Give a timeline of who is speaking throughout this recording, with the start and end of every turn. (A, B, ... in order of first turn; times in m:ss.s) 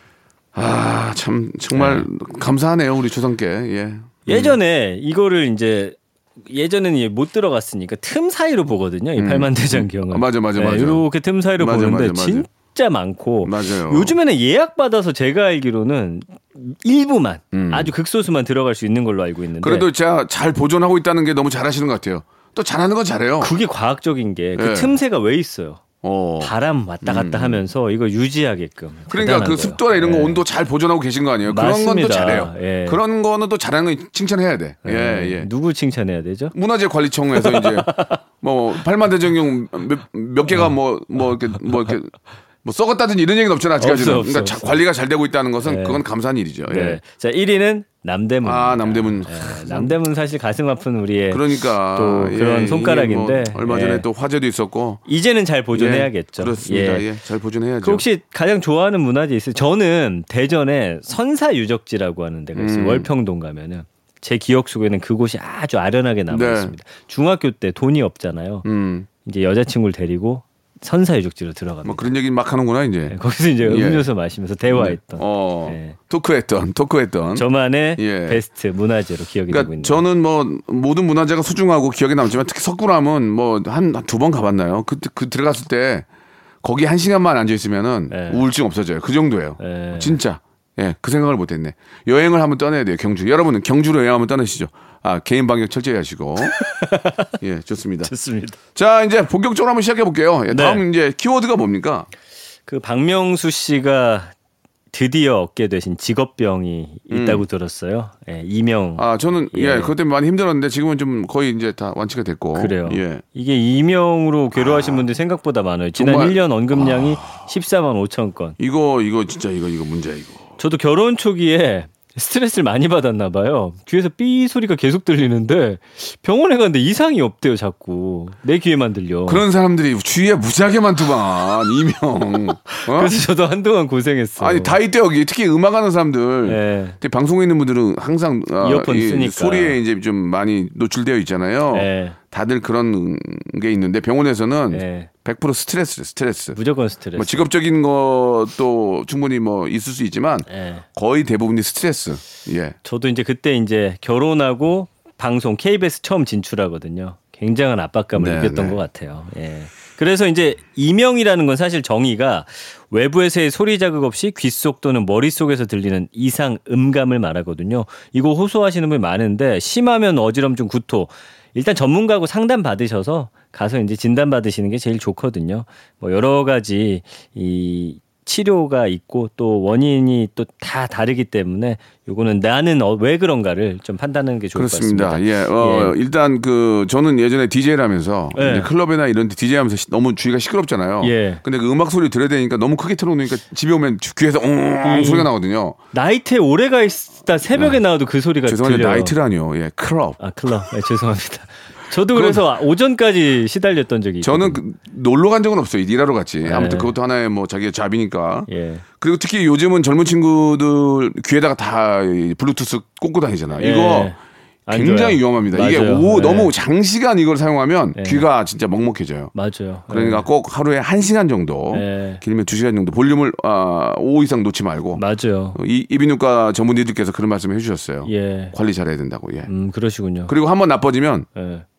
0:00.5-0:04.6 A
0:01.7-0:02.1 B
0:04.2-0:19.9 B
0:09.2-0:11.0 A
0:11.6-0:12.5 A
0:13.4-0:14.2 A
0:17.5-0:17.9 A
0:19.6-0:23.6 A
0:23.4-0:25.8 B
0:24.6-0:25.0 A
0:26.0-0:27.6 A
0:26.4-0:30.4 B
0:29.1-0:35.5 A
0:31.5-0:33.0 B
0:34.8-0:36.5 B
0:36.5-0:47.0 A
0:37.3-0:38.2 B
0:41.5-0:41.9 B
0:43.8-0:44.8 B
0:45.6-0:46.0 B
0:46.7-0:54.0 B
0:48.4-0:49.9 A
0:51.3-0:55.0 A
0:55.1-0:57.0 B
0:55.7-0:58.0 A
0:57.8-1:08.6 B
1:02.6-1:03.1 A
1:06.3-1:06.7 A
1:08.6-1:09.1 A
1:09.2-1:12.1 B
1:11.8-1:14.1 A
1:13.1-1:16.0 B
1:14.7-1:18.4 A
1:17.4-1:20.0 B
1:19.5-1:26.0 A
1:26.6-1:36.6 A
1:28.1-1:28.4 B
1:29.6-1:30.2 B
1:36.4-1:37.3 B
1:37.4-1:38.1 A
1:38.0-1:38.6 B
1:38.7-1:42.1 A
1:40.5-1:40.8 B
1:42.7-1:44.3 B
1:44.9-1:49.9 B
1:47.1-1:47.4 A
1:49.0-1:53.2 A
1:52.5-1:58.6 B
1:54.5-1:55.0 A
1:56.0-1:57.4 A
1:58.6-2:00.5 A
2:00.6-2:09.4 B
2:09.2-2:13.1 A
2:12.7-2:14.8 B
2:14.4-2:26.6 A
2:16.5-2:17.0 B
2:18.6-2:19.8 B
2:21.7-2:22.2 B
2:24.7-2:25.1 B
2:26.6-2:27.5 B
2:27.2-2:32.8 A
2:30.5-2:30.8 B
2:32.8-3:05.9 B
2:38.1-2:38.8 A
3:04.5-3:15.8 A
3:08.3-3:08.7 B
3:11.0-3:11.4 B
3:14.8-3:15.3 B
3:15.9-3:19.1 B
3:17.5-3:17.8 A
3:18.4-3:20.2 A
3:20.2-3:24.6 B
3:22.1-3:22.4 A
3:24.2-3:28.5 A
3:26.4-3:26.9 B
3:28.5-3:28.8 B
3:29.0-3:34.2 A
3:33.6-3:36.5 B
3:34.7-3:39.3 A
3:37.9-3:38.2 B
3:39.3-3:40.3 B
3:39.9-3:45.0 A
3:41.7-3:42.2 B
3:44.9-3:45.6 B
3:45.5-3:49.5 A
3:48.0-3:48.6 B
3:49.5-3:50.3 B
3:50.3-3:51.3 A
3:51.4-3:51.6 B